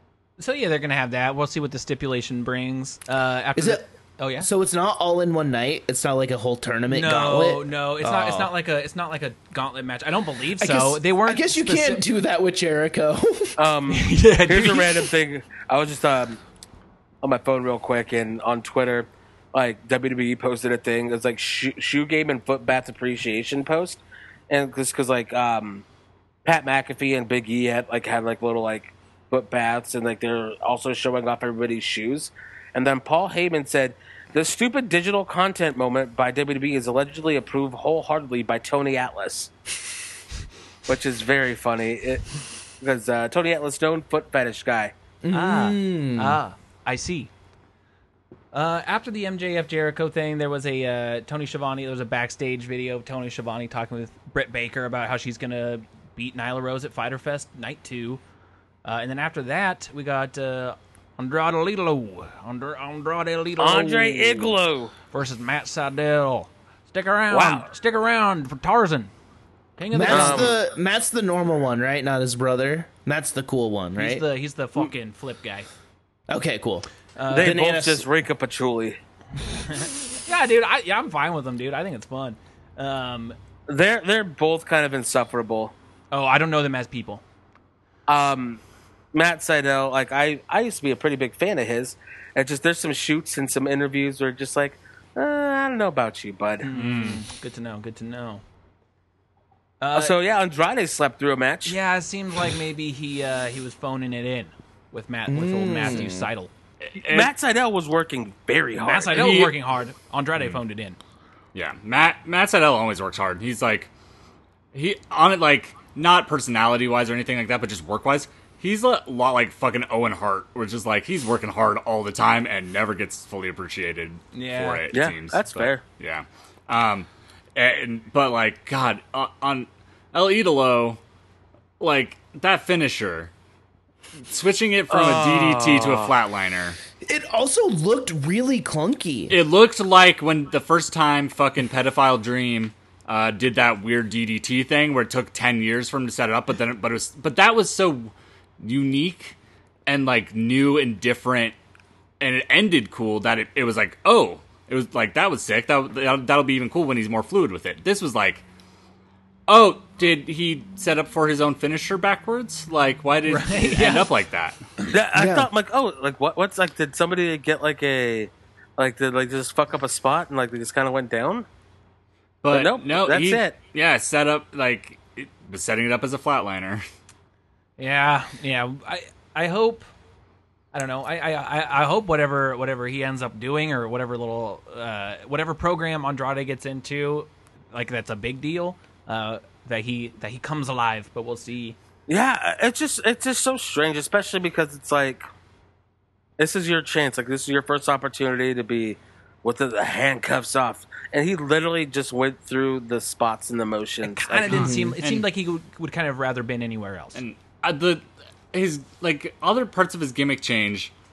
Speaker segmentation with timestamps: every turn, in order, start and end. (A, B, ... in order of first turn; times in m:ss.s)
0:00.4-0:04.5 A
0:03.6-0:03.8 B
0:04.4-0:08.5 B
0:06.9-0:12.0 A
0:10.6-0:13.6 B
0:13.6-0:16.4 C
0:13.9-0:15.1 A
0:17.2-0:25.8 C
0:26.4-0:39.5 C
0:40.9-0:42.3 C
0:42.8-0:44.9 C
0:45.2-0:46.4 B
0:45.3-0:47.3 A
0:48.5-0:58.2 A
0:58.8-1:04.6 A
1:03.6-1:04.9 C
1:05.1-1:09.1 A
1:07.3-1:07.6 C
1:09.8-1:10.5 A
1:09.9-1:14.2 B
1:10.1-1:10.5 C
1:14.0-1:15.7 A
1:16.3-1:18.1 B
1:17.2-1:17.6 A
1:17.3-1:19.0 C
1:19.5-1:23.4 A
1:23.7-1:25.7 C
1:26.1-1:27.2 A
1:28.1-1:28.6 C
1:29.1-1:36.7 C
1:36.6-1:38.4 A
1:36.8-1:37.2 D
1:39.8-1:40.1 A
1:39.9-1:41.8 C
1:41.6-1:46.5 A
1:45.3-1:46.3 B
1:46.8-1:47.3 D
1:47.1-1:49.3 C
1:48.8-1:51.0 A
1:49.1-1:49.5 D
1:51.5-1:53.9 D
1:54.7-2:11.0 D
2:04.3-2:04.9 A
2:04.9-2:05.8 C
2:11.8-2:13.3 D
2:14.2-2:16.8 D
2:14.9-2:16.1 C
2:17.0-2:19.4 B
2:19.3-2:29.4 D
2:29.9-2:31.6 D
2:32.2-2:38.4 D
2:39.5-2:44.6 D
2:43.3-2:44.1 A
2:44.9-2:51.4 C
2:45.1-2:45.5 B
2:52.4-2:56.8 D
2:52.5-2:53.5 C
2:57.8-2:59.8 A
3:00.7-3:11.8 A
3:12.1-3:15.2 C
3:16.4-3:24.6 C
3:24.0-3:27.2 A
3:24.5-3:25.0 B
3:24.5-3:25.3 D
3:27.1-3:30.9 D